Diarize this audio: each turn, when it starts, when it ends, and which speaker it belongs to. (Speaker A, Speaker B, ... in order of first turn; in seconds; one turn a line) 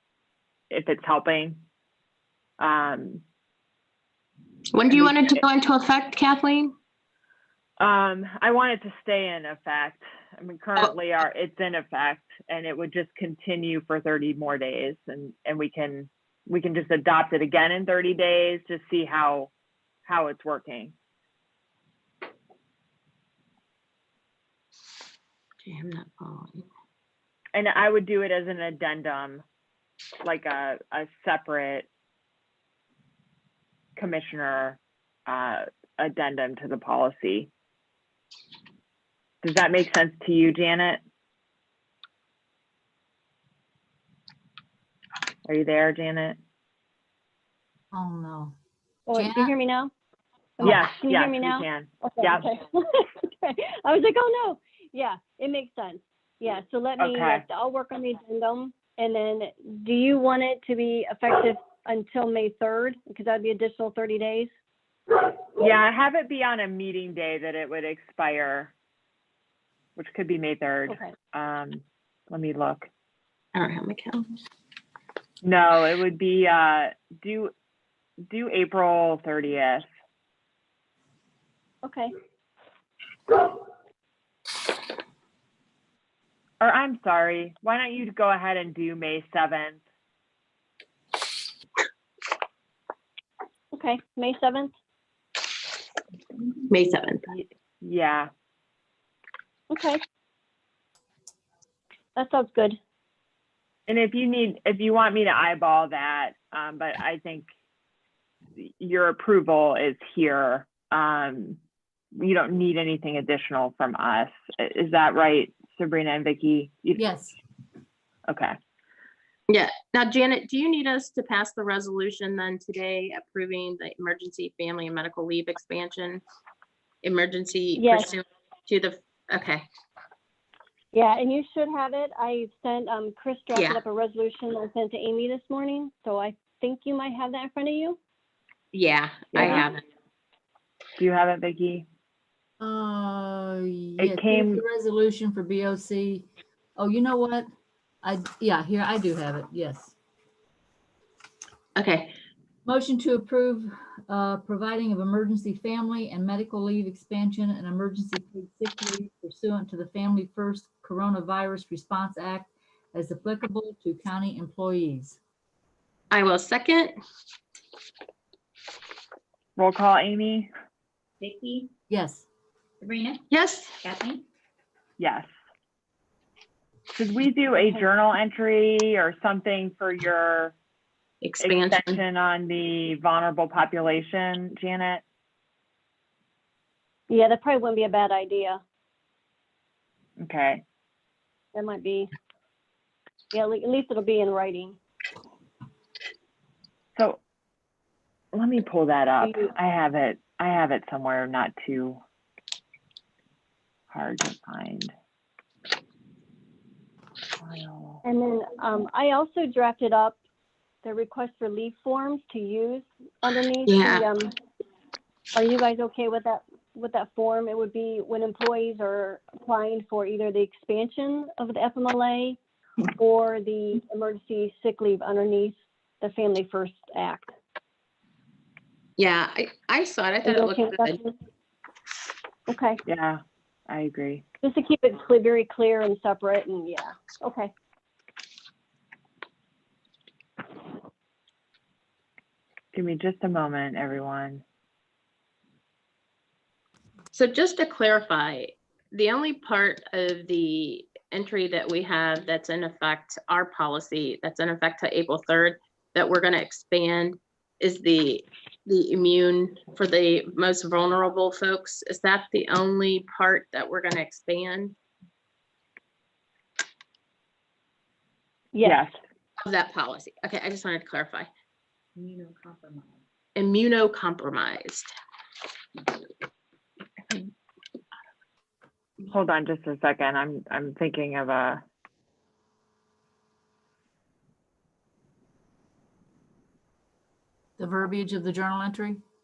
Speaker A: 0.7-1.6
Speaker A: 2.6-3.2
Speaker B: 4.7-6.7
Speaker A: 4.9-5.4
Speaker A: 7.8-19.5
Speaker A: 20.0-20.9
Speaker B: 25.6-26.6
Speaker A: 27.5-29.4
Speaker A: 30.2-31.9
Speaker A: 34.0-37.5
Speaker A: 39.4-41.0
Speaker A: 45.4-46.4
Speaker C: 47.9-48.5
Speaker D: 49.1-49.9
Speaker C: 49.1-49.5
Speaker D: 50.6-64.5
Speaker A: 50.6-52.4
Speaker A: 57.0-57.4
Speaker A: 65.5-68.7
Speaker A: 70.0-72.9
Speaker B: 73.5-74.3
Speaker A: 75.4-77.5
Speaker A: 78.3-79.8
Speaker D: 81.8-82.1
Speaker A: 86.6-89.8
Speaker D: 93.7-94.7
Speaker B: 96.7-97.3
Speaker A: 97.3-98.3
Speaker D: 99.7-100.0
Speaker D: 102.2-102.8
Speaker A: 103.9-107.5
Speaker A: 108.6-111.6
Speaker A: 112.1-117.0
Speaker C: 117.0-117.3
Speaker A: 118.3-118.5
Speaker B: 119.5-126.2
Speaker B: 127.0-129.7
Speaker D: 127.7-128.1
Speaker D: 130.9-138.0
Speaker B: 133.5-133.8
Speaker B: 138.7-139.8
Speaker A: 139.3-139.7
Speaker A: 141.0-141.8
Speaker C: 142.6-147.5
Speaker A: 144.0-144.6
Speaker C: 148.0-149.9
Speaker B: 151.8-152.1
Speaker C: 152.6-165.2
Speaker B: 166.1-166.9
Speaker A: 169.6-170.5
Speaker C: 171.2-172.2
Speaker B: 173.3-173.8
Speaker C: 173.8-174.1
Speaker A: 175.0-175.3
Speaker A: 176.9-180.6
Speaker B: 181.2-182.0
Speaker A: 181.4-185.0
Speaker D: 187.1-188.6
Speaker A: 190.2-190.6
Speaker D: 191.5-192.1
Speaker D: 193.3-194.8
Speaker A: 196.9-197.2
Speaker A: 198.3-202.0
Speaker A: 203.9-204.9
Speaker A: 207.4-208.0
Speaker D: 208.0-210.2
Speaker D: 210.8-214.3
Speaker B: 213.7-214.1
Speaker D: 215.3-227.3
Speaker B: 229.0-231.0
Speaker D: 230.2-231.1
Speaker D: 232.5-232.8
Speaker A: 232.8-234.2
Speaker D: 234.4-237.5
Speaker A: 242.7-244.4
Speaker B: 247.1-264.7
Speaker D: 268.5-268.8
Speaker A: 268.6-268.9
Speaker B: 269.4-271.3
Speaker C: 272.0-272.9
Speaker B: 273.3-274.9
Speaker A: 279.1-281.6
Speaker C: 287.6-289.0